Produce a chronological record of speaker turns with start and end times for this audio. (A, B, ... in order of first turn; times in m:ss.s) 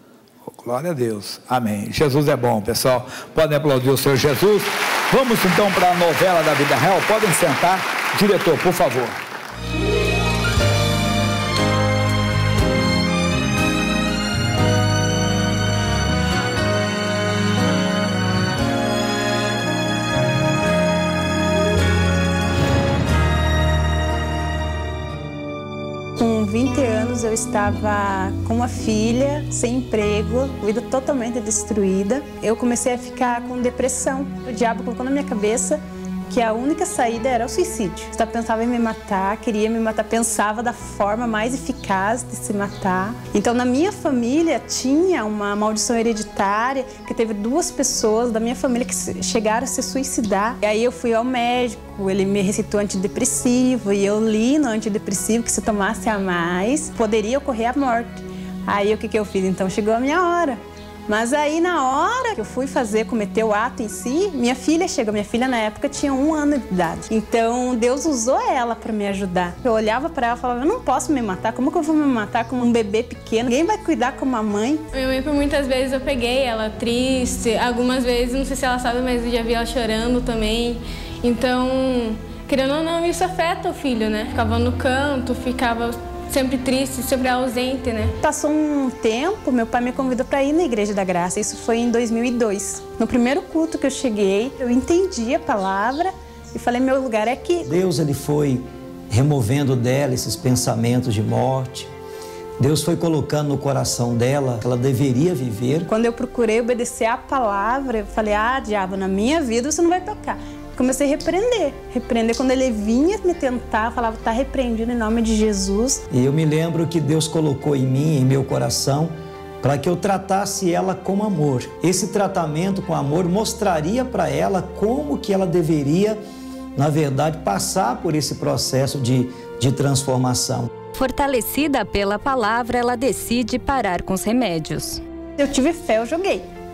0:00.4-0:09.2 A
0:26.2-1:14.8 B
1:14.9-1:28.1 C
1:28.2-1:37.7 B
1:37.7-1:41.9 D
1:42.6-1:45.9 D
1:45.9-1:56.0 B
1:56.1-2:06.2 D
2:06.8-2:10.7 D
2:10.9-2:15.0 E
2:15.4-2:16.5 B